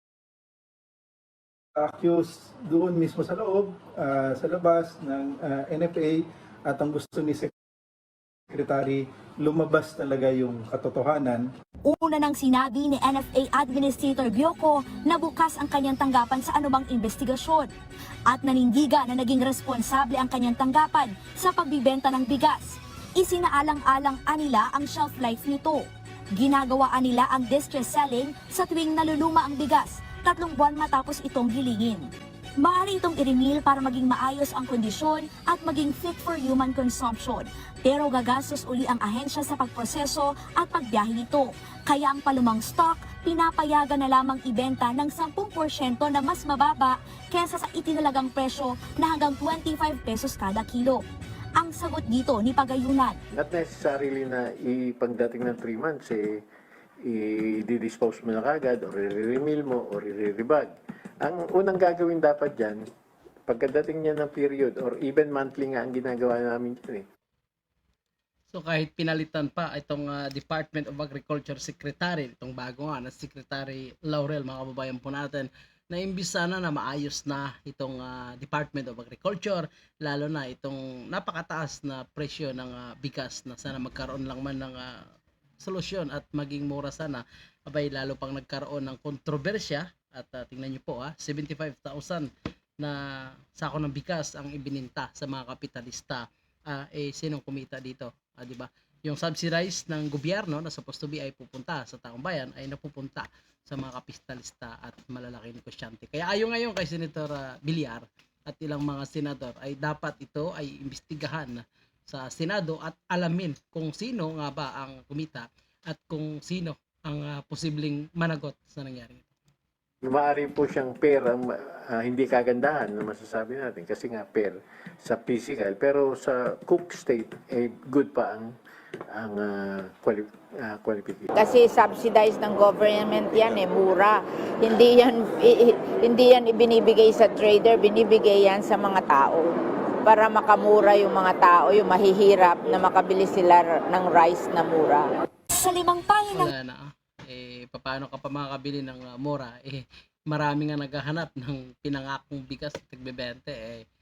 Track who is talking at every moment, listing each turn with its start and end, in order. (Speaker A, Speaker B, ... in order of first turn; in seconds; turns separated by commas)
Speaker A: 1.8-7.5, Speaker A: 8.5-11.5, Speaker B: 11.8-17.7, Speaker B: 18.3-51.0, Speaker B: 51.5-53.2, Speaker C: 53.3-56.4, Speaker C: 57.0-62.8, Speaker C: 63.5-67.0, Speaker D: 68.5-85.0, Speaker D: 85.6-92.3, Speaker D: 92.8-119.3, Speaker C: 120.0-128.5, Speaker C: 129.1-131.3, Speaker E: 131.3-139.5, Speaker E: 140.0-145.0, Speaker B: 145.5-146.5, Speaker D: 146.3-153.8